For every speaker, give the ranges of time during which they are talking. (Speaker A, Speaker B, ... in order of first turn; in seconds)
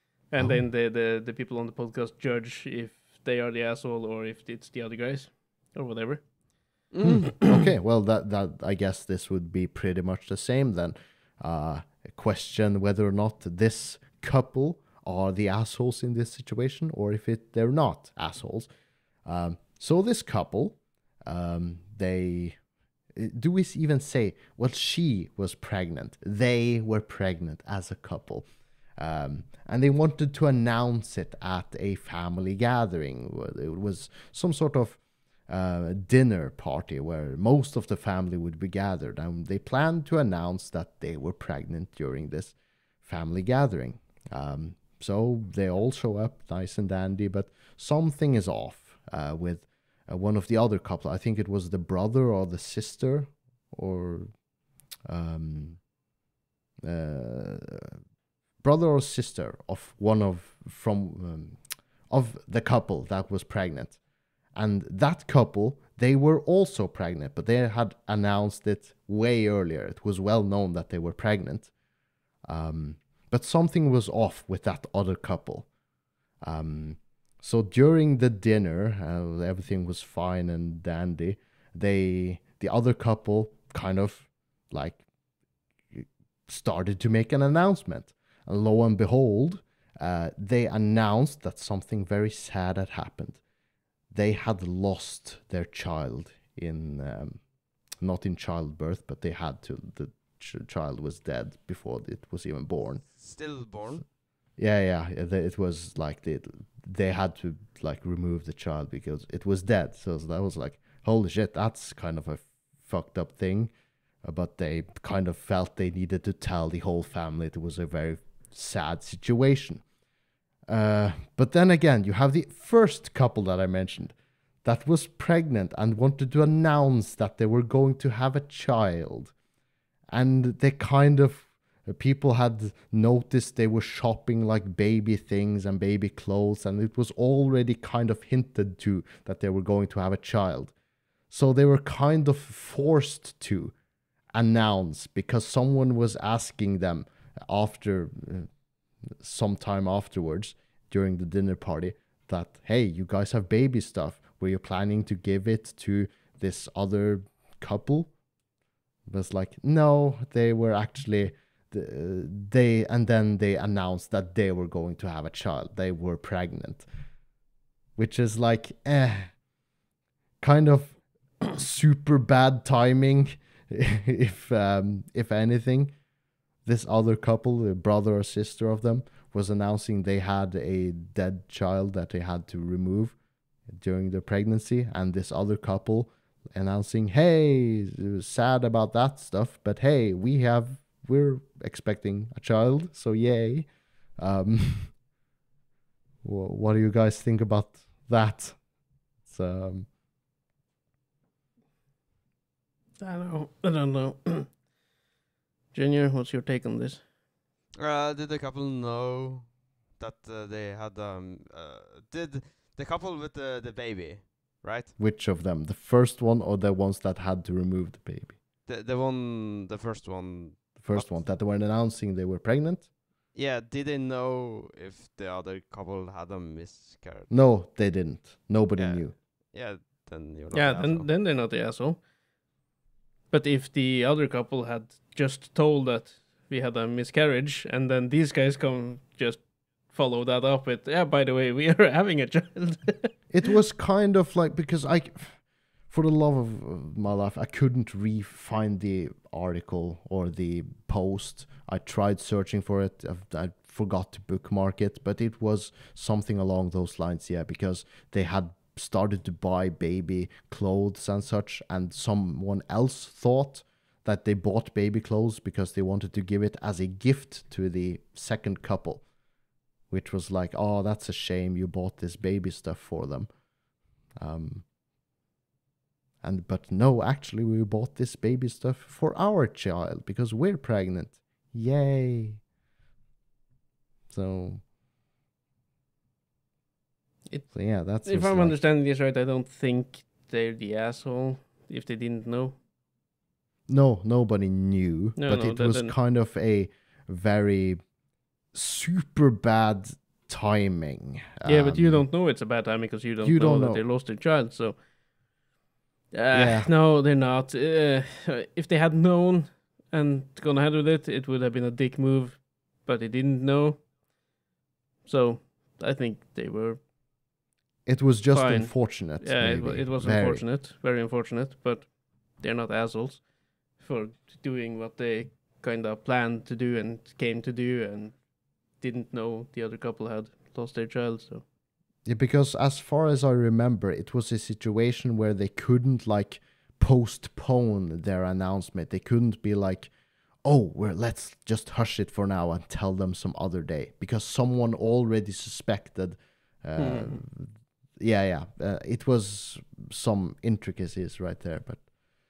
Speaker A: 0.2-6.9, 203.0-204.6, 205.7-207.0, 230.5-232.0, 233.3-243.3, 287.2-292.6, 295.1-295.9, 301.4-304.8, 306.1-313.9, 315.0-316.8, 318.3-331.4, 346.8-347.2
Speaker B: 0.4-0.6, 7.0-18.7, 19.2-22.6, 23.1-54.4, 55.0-55.9, 56.8-58.0, 58.6-64.0, 64.5-71.7, 72.4-75.7, 76.4-85.0, 85.9-93.4, 94.1-103.2, 104.6-119.8, 120.7-129.3, 130.1-140.7, 141.3-143.7, 144.3-148.5, 149.1-158.1, 159.1-166.9, 167.9-169.4, 170.4-175.9, 176.6-195.0, 196.2-199.9, 215.0-218.4, 220.8-222.9, 227.3-229.2, 243.3-269.1, 269.9-273.3, 274.1-274.7, 276.2-282.4, 284.1-284.6, 287.5-288.6, 293.7-297.8, 298.5-302.1, 303.2-303.8, 306.3-306.7, 317.8-320.4, 332.0-339.9, 340.4-351.9
Speaker C: 6.9-7.2, 103.2-104.0, 207.8-214.9, 218.7-221.2, 223.3-227.3, 228.8-231.1